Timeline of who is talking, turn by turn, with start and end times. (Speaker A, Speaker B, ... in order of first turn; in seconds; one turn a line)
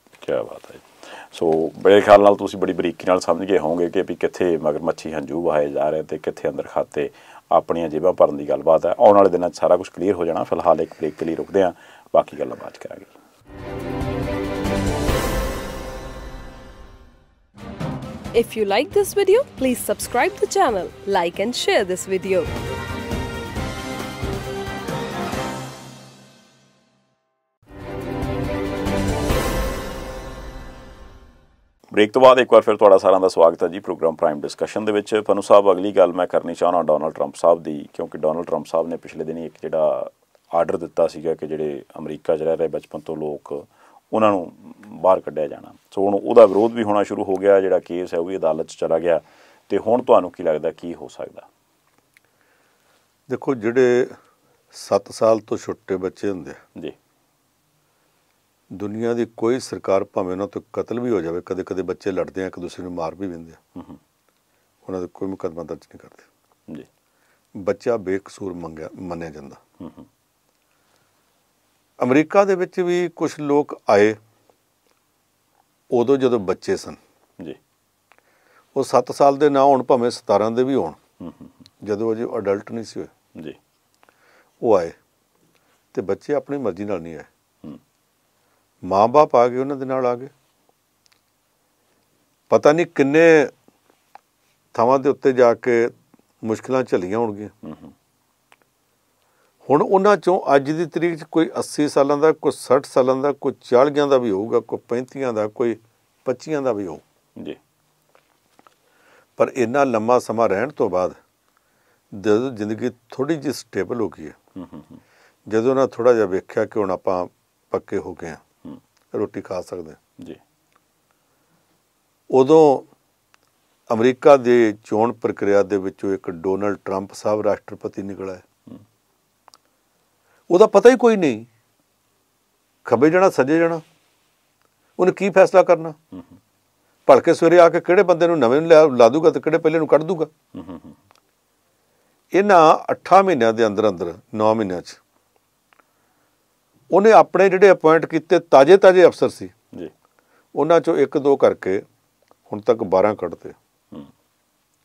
Speaker A: 0.2-13.1
Speaker B: 18.3-22.5
Speaker A: 31.9-51.5
Speaker C: 53.3-54.2
Speaker C: 54.7-56.6
Speaker C: 58.7-63.6
Speaker C: 64.8-66.2
Speaker C: 67.5-69.6
Speaker A: 69.8-70.0
Speaker C: 72.0-74.2
Speaker C: 75.9-77.0
Speaker C: 78.7-81.0
Speaker A: 81.2-81.5
Speaker C: 81.8-83.1
Speaker C: 84.6-85.0
Speaker C: 85.9-87.3
Speaker C: 88.8-90.3
Speaker C: 92.5-93.5
Speaker C: 94.7-97.5
Speaker A: 97.6-97.9
Speaker C: 99.7-107.0
Speaker C: 109.4-111.2
Speaker C: 112.1-114.3
Speaker A: 114.5-115.0
Speaker C: 115.5-118.4
Speaker C: 119.1-120.0
Speaker C: 122.3-122.8
Speaker C: 123.9-128.4
Speaker C: 130.5-131.5
Speaker C: 132.8-133.8
Speaker C: 135.0-135.9
Speaker C: 137.1-140.3
Speaker A: 140.5-141.0
Speaker C: 142.3-145.0
Speaker C: 146.9-149.5
Speaker C: 150.5-151.8
Speaker C: 152.5-153.6